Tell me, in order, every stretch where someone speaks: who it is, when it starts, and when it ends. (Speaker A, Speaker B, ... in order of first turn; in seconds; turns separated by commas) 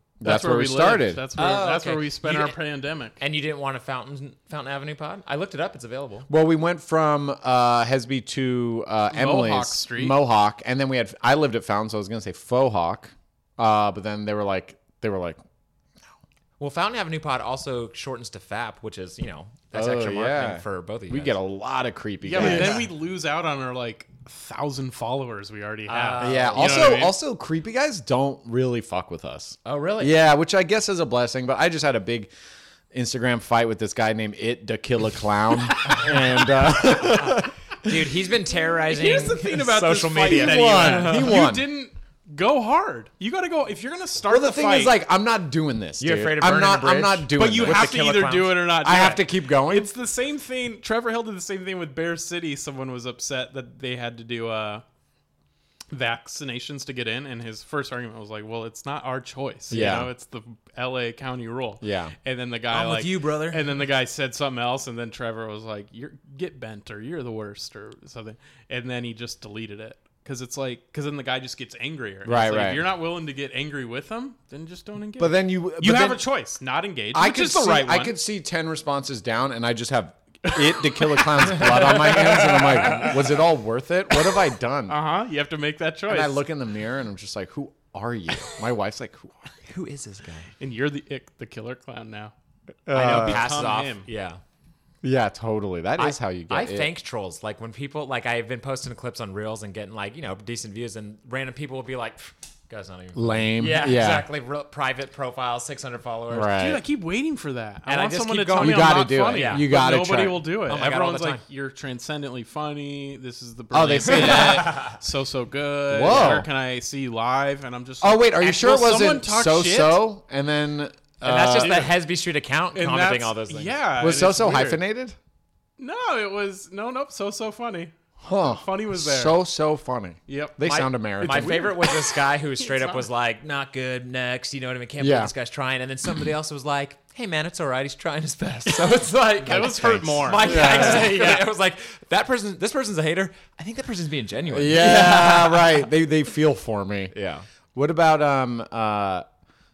Speaker A: 0.2-1.3, Speaker B: 0.2-3.2, Speaker C: 1.4-2.6, Speaker C: 3.2-6.3, Speaker A: 6.3-15.4, Speaker B: 9.1-10.2, Speaker C: 16.6-21.4, Speaker A: 19.7-22.9, Speaker B: 22.2-27.1, Speaker C: 22.4-22.9, Speaker C: 25.9-26.9, Speaker A: 26.2-32.3, Speaker C: 29.6-30.2, Speaker A: 32.9-38.1, Speaker C: 37.1-41.4, Speaker B: 38.9-45.0, Speaker A: 40.2-41.7, Speaker A: 44.3-48.0, Speaker C: 46.0-48.8, Speaker B: 47.3-54.8, Speaker A: 48.8-49.9, Speaker B: 55.9-78.2, Speaker A: 59.7-60.1, Speaker A: 61.8-62.1, Speaker C: 62.7-63.8, Speaker A: 72.2-72.8, Speaker A: 75.2-76.2, Speaker A: 77.1-85.0, Speaker B: 80.5-83.1, Speaker B: 84.9-86.4, Speaker A: 86.1-89.5, Speaker C: 89.7-90.5, Speaker B: 90.6-92.3, Speaker A: 92.9-93.5, Speaker C: 92.9-94.4, Speaker B: 93.0-94.1, Speaker A: 95.0-96.9, Speaker C: 96.0-106.6, Speaker A: 103.2-104.3, Speaker A: 106.3-106.8, Speaker B: 106.5-120.0, Speaker C: 107.9-109.7, Speaker A: 108.6-110.5, Speaker C: 110.7-111.4, Speaker A: 113.7-114.8, Speaker C: 114.1-115.0, Speaker A: 115.9-116.5, Speaker A: 118.0-121.9, Speaker C: 121.2-123.8, Speaker B: 121.6-121.9, Speaker B: 122.7-124.8, Speaker A: 124.0-125.2, Speaker B: 125.8-129.4, Speaker A: 128.2-131.8, Speaker B: 130.3-130.6, Speaker C: 130.6-145.9, Speaker B: 131.2-133.0, Speaker A: 135.0-135.3, Speaker B: 139.4-141.1, Speaker A: 140.4-141.4, Speaker A: 144.5-147.2, Speaker C: 147.1-147.5, Speaker A: 147.7-149.2